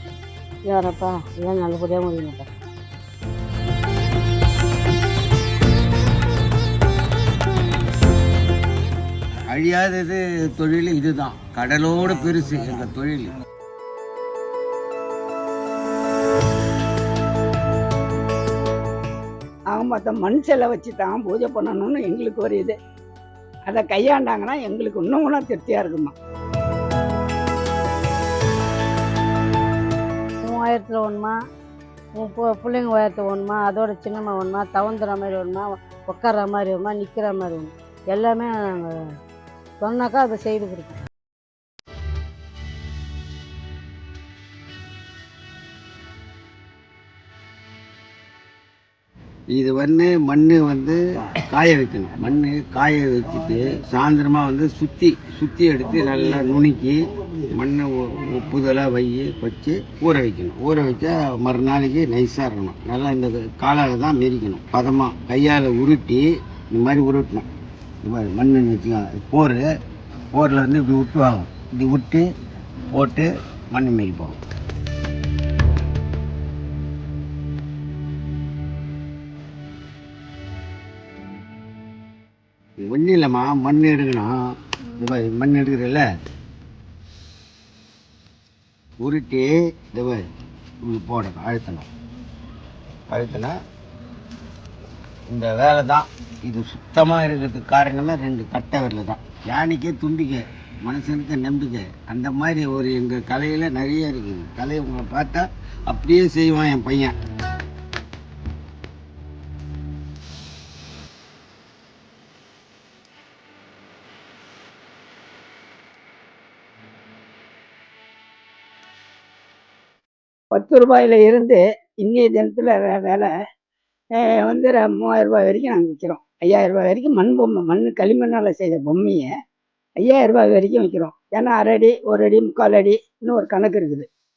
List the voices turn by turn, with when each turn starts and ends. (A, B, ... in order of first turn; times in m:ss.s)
0:00.7-0:02.5 A
0:09.5-0:13.3 B
0:19.7-0:22.8 C
0:23.7-0:26.1 C
0:30.4-0:31.3 A
0:32.1-0:39.0 A
0:39.8-0:41.0 A
0:49.5-1:07.5 B
1:08.0-1:09.6 B
1:10.3-1:12.3 B
1:12.9-1:14.4 B
1:22.8-1:24.3 B
1:25.0-1:26.0 B
1:29.0-1:30.2 B
1:30.8-1:31.9 B
1:33.1-1:33.6 B
1:35.3-1:47.1 B
2:00.5-2:03.3 C
2:04.2-2:09.3 C
2:10.0-2:14.1 C